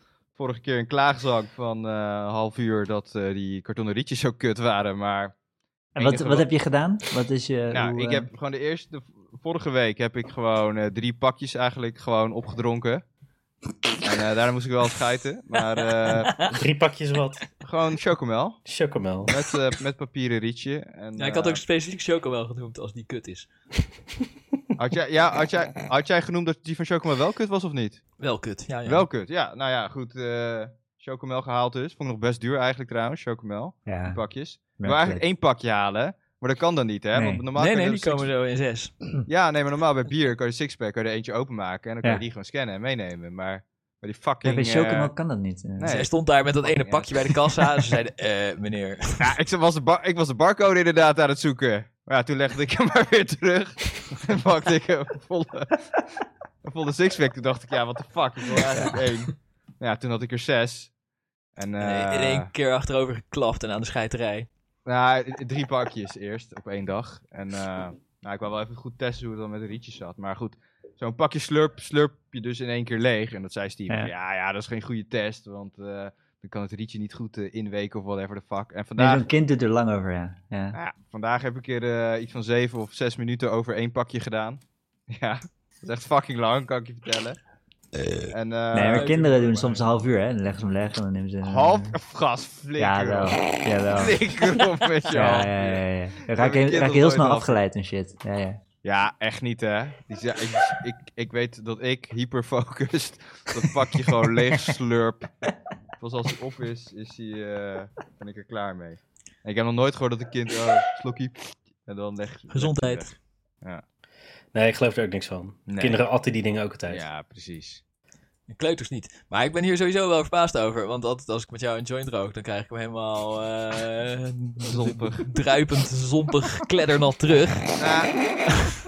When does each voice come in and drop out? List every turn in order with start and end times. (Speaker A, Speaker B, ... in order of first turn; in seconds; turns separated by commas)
Speaker A: 0.3-5.3, Speaker A: 6.0-6.5, Speaker B: 6.0-8.3, Speaker A: 7.7-13.0, Speaker A: 14.0-16.4, Speaker C: 16.4-17.5, Speaker A: 17.6-18.6, Speaker C: 18.6-19.3, Speaker A: 19.3-21.6, Speaker D: 21.2-23.5, Speaker A: 24.8-28.1, Speaker D: 28.2-29.1, Speaker A: 28.9-38.3, Speaker B: 33.9-34.2, Speaker B: 34.8-35.2, Speaker B: 37.1-37.4, Speaker D: 37.5-38.9, Speaker A: 39.2-45.1, Speaker B: 44.4-45.9, Speaker A: 45.8-46.1, Speaker D: 45.8-49.3, Speaker A: 46.6-47.3, Speaker A: 49.2-56.0, Speaker A: 56.6-60.9, Speaker D: 58.8-59.1, Speaker A: 61.6-62.5, Speaker D: 61.8-64.5, Speaker A: 64.9-79.2, Speaker B: 79.0-80.8, Speaker A: 80.7-87.4, Speaker A: 88.3-89.1, Speaker B: 88.7-92.0, Speaker D: 88.8-89.8, Speaker A: 91.4-97.6, Speaker B: 92.8-94.2, Speaker B: 95.1-98.6, Speaker A: 98.8-105.3, Speaker A: 106.0-113.8, Speaker D: 112.5-113.1, Speaker C: 114.5-117.0, Speaker A: 115.7-116.0, Speaker A: 116.9-117.8, Speaker D: 118.5-127.7, Speaker A: 124.7-125.3, Speaker A: 127.8-128.3